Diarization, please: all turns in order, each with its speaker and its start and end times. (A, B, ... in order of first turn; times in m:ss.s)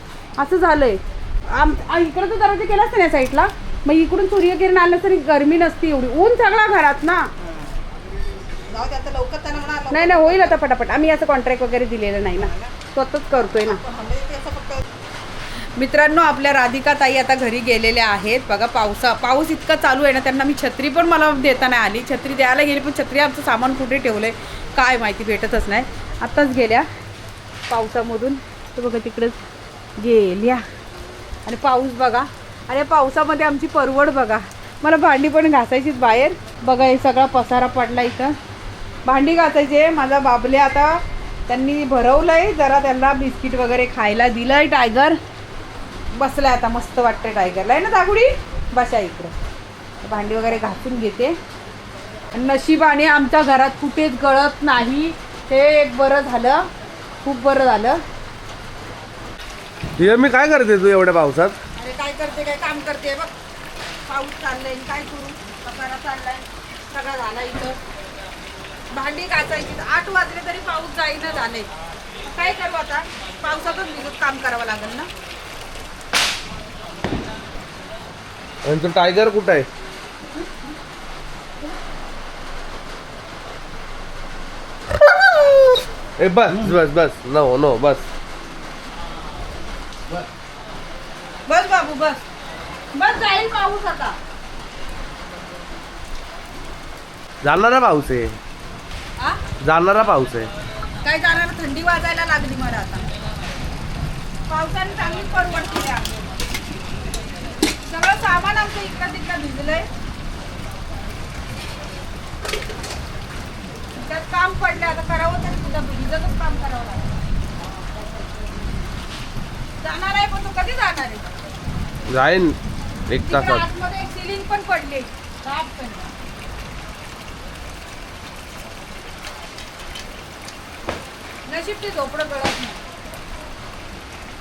0:00.4-0:07.3 A
0:07.4-0:07.8 B
0:08.7-0:10.6 B
0:09.9-0:13.8 A
0:12.4-0:12.7 B
0:13.6-0:14.8 B
0:15.8-0:26.9 A
0:27.7-0:29.4 A
0:30.0-0:30.6 A
0:31.5-0:38.4 A
0:39.1-0:45.2 A
0:46.1-0:49.3 A
0:50.0-0:51.4 A
0:52.3-0:56.7 A
0:57.2-0:58.0 A
1:00.0-1:01.6 C
1:01.8-1:03.3 A
1:04.1-1:07.8 A
1:08.9-1:11.7 A
1:12.2-1:15.1 A
1:18.6-1:19.7 C
1:26.2-1:28.1 C
1:31.5-1:32.2 A
1:32.9-1:34.2 A
1:37.4-1:38.4 C
1:39.6-1:40.5 C
1:41.0-1:43.0 A
1:44.5-1:46.1 A
1:47.8-1:49.9 A
1:54.0-1:57.2 A
1:59.8-2:01.2 A
2:02.1-2:02.6 C
2:03.1-2:03.6 C
2:03.2-2:06.1 A
2:11.5-2:12.8 A